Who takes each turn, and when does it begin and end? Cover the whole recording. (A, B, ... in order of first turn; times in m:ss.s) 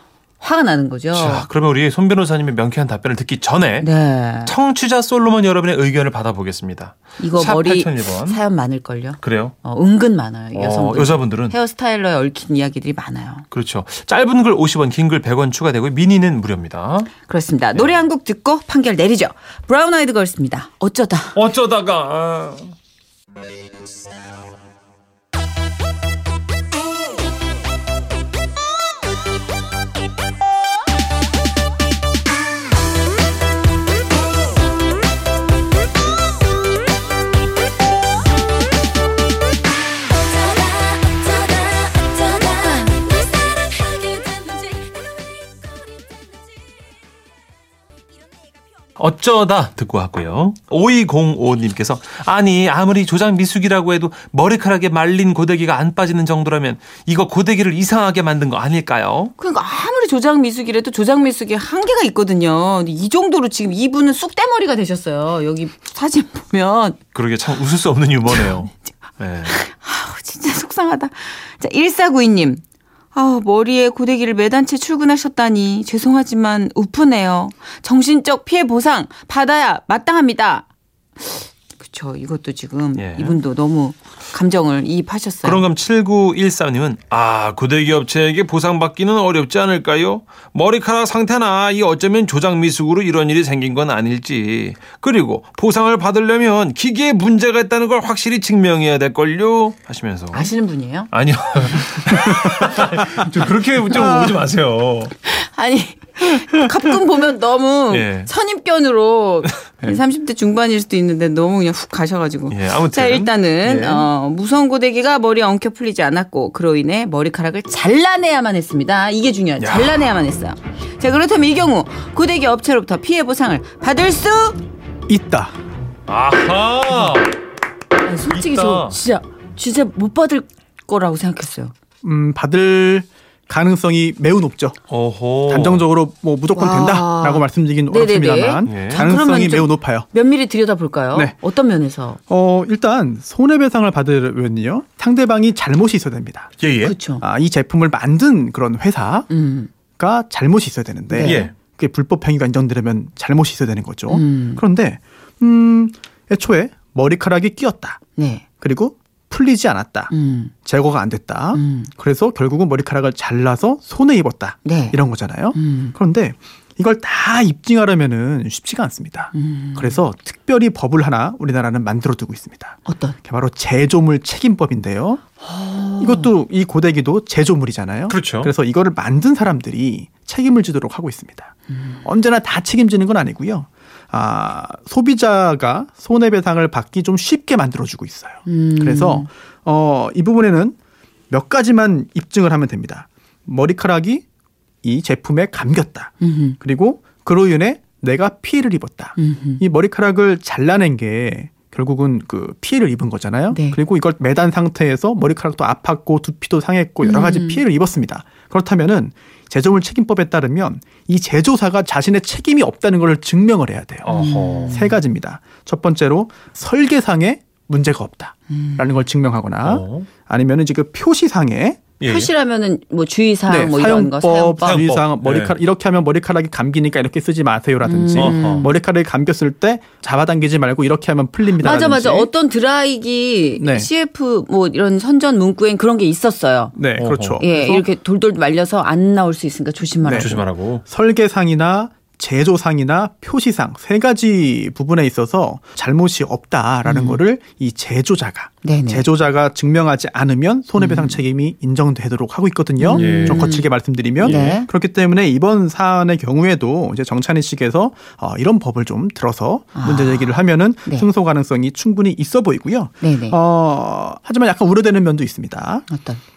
0:00.4-0:01.5 A
0:01.1-0:03.9 B
0:03.8-0:04.5 A
0:04.4-0:08.4 B
0:07.2-0:13.4 A
0:09.2-0:09.5 B
0:10.5-0:11.6 B
0:13.5-0:17.1 B
0:17.3-0:21.4 A
0:17.7-0:18.0 B
0:21.3-0:22.7 B
0:40.4-0:44.9 A
0:49.0-0:59.3 B
0:59.4-1:07.0 A
1:07.1-1:09.6 B
1:09.4-1:12.6 A
1:13.1-1:20.6 A
1:21.2-1:25.6 A
1:23.0-1:23.4 B
1:25.4-1:40.5 B
1:40.3-1:41.1 A
1:41.1-1:45.2 B
1:44.0-1:44.4 C
1:45.2-2:04.6 A
1:47.9-1:48.3 B
1:52.5-1:54.1 B
1:59.6-2:00.1 B
2:05.1-2:05.5 C
2:06.1-2:07.3 B
2:08.0-2:11.7 A
2:08.3-2:09.0 B
2:12.0-2:14.8 C
2:14.9-2:15.8 B
2:15.5-2:20.1 C
2:16.5-2:22.2 A
2:18.6-2:19.1 B
2:22.3-2:26.5 C
2:26.6-2:26.9 B
2:26.8-2:27.2 A
2:27.2-2:29.3 C
2:29.3-2:29.7 A
2:30.0-2:38.0 C
2:31.1-2:31.5 A
2:31.2-2:31.5 B
2:34.1-2:34.6 A
2:38.2-2:38.4 A
2:38.6-2:40.1 C
2:40.1-2:40.5 A
2:40.6-2:55.2 C
2:41.5-2:41.9 A
2:44.6-2:45.0 A
2:45.5-2:45.9 A
2:49.3-2:50.0 A
2:52.9-2:53.2 A
2:55.4-2:56.3 A
2:56.0-3:01.5 C
2:58.1-2:58.5 B
3:01.7-3:02.0 A
3:02.0-3:10.8 C
3:08.4-3:09.3 A
3:11.3-3:14.2 C
3:14.8-3:41.9 C
3:16.2-3:16.6 A
3:19.2-3:19.6 A
3:23.5-3:23.8 A
3:27.0-3:27.6 A
3:34.0-3:34.9 B
3:34.1-3:35.0 A
3:38.5-3:39.0 A
3:39.6-3:40.1 B
3:42.0-3:42.3 B
3:42.0-3:44.8 A
3:43.5-3:52.3 C
3:44.6-3:45.6 B
3:47.8-3:48.7 A
3:48.1-3:48.7 B
3:51.6-3:56.7 A
3:53.6-3:53.9 C
3:56.8-3:57.8 C
3:57.0-3:57.5 B
3:57.4-4:00.4 A
4:00.0-4:25.8 C
4:00.1-4:00.8 B
4:06.8-4:07.2 A
4:08.6-4:09.0 A
4:10.8-4:11.2 A
4:12.8-4:14.7 A
4:12.9-4:13.5 B
4:14.2-4:14.6 B
4:19.7-4:21.1 A
4:23.0-4:23.4 A
4:25.9-4:26.2 A